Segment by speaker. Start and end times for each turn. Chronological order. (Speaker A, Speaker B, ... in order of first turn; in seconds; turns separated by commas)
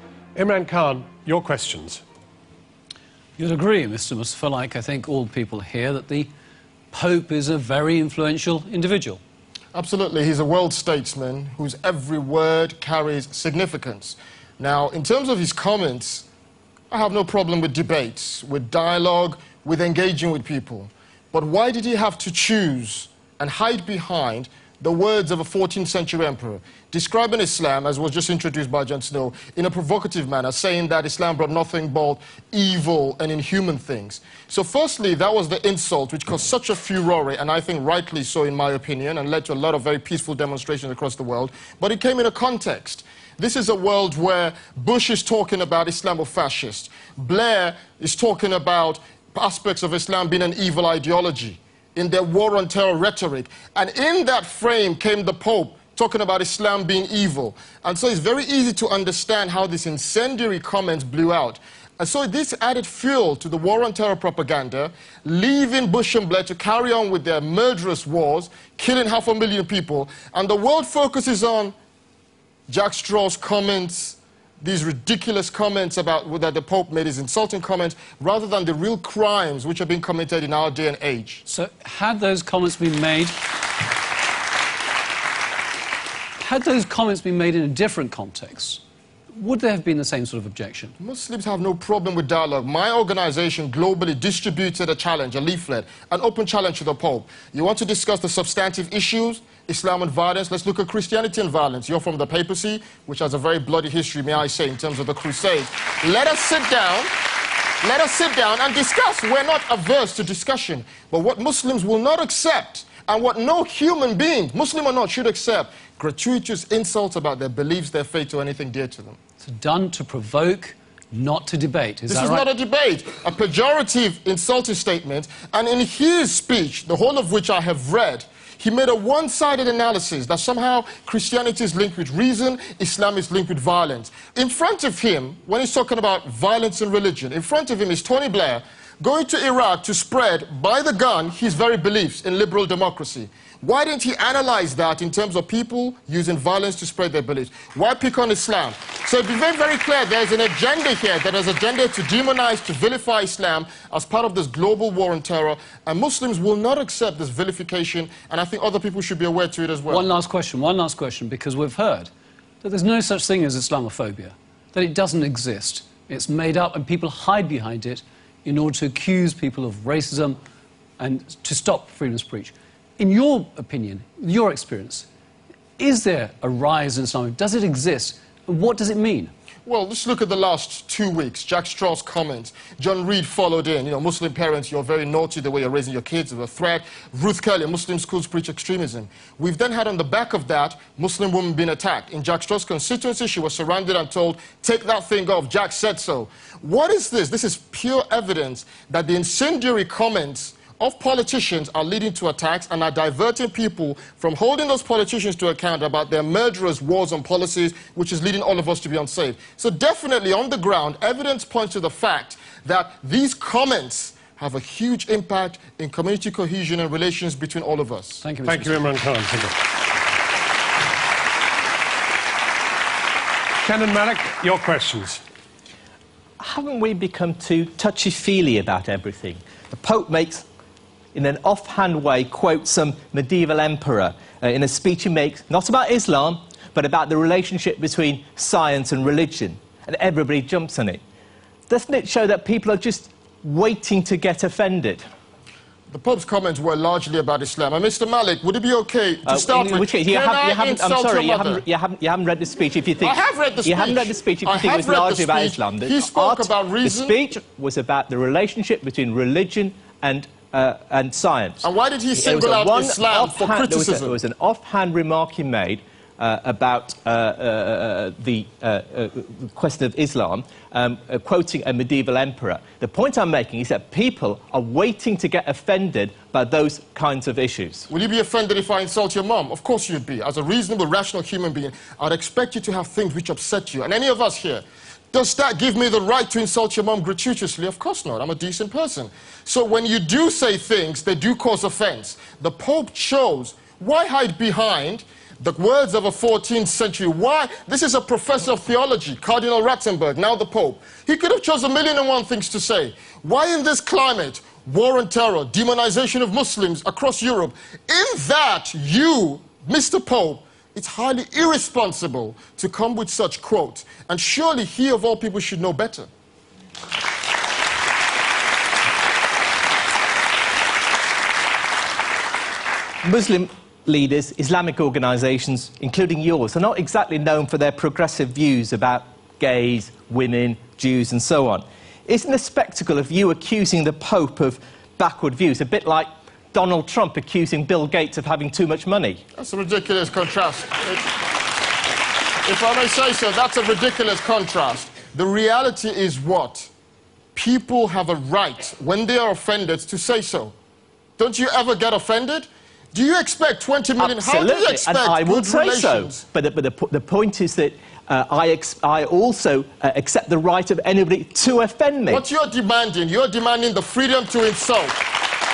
Speaker A: 0.3-2.0, Speaker B: 3.4-6.3, Speaker B: 6.9-9.2, Speaker C: 9.7-16.3, Speaker C: 16.9-71.8, Speaker C: 72.7-81.4, Speaker B: 81.5-83.4, Speaker B: 86.4-88.8, Speaker B: 89.3-90.9, Speaker C: 91.0-107.1, Speaker C: 107.8-119.2, Speaker B: 119.4-122.5, Speaker C: 122.1-160.1, Speaker B: 159.9-162.1, Speaker B: 162.6-170.4, Speaker B: 171.0-175.1, Speaker B: 175.8-179.3, Speaker C: 179.7-218.2, Speaker B: 218.2-218.8, Speaker A: 218.4-219.6, Speaker A: 223.6-225.2, Speaker D: 226.4-230.4, Speaker D: 231.1-241.0, Speaker D: 241.7-245.1, Speaker C: 245.9-251.6, Speaker D: 249.3-277.9, Speaker C: 253.0-257.2, Speaker C: 261.6-264.2, Speaker C: 277.9-316.1, Speaker D: 323.0-339.2, Speaker C: 339.4-341.1, Speaker C: 342.4-346.7, Speaker C: 347.4-350.5, Speaker C: 351.2-356.2, Speaker D: 354.0-362.2, Speaker C: 362.1-365.1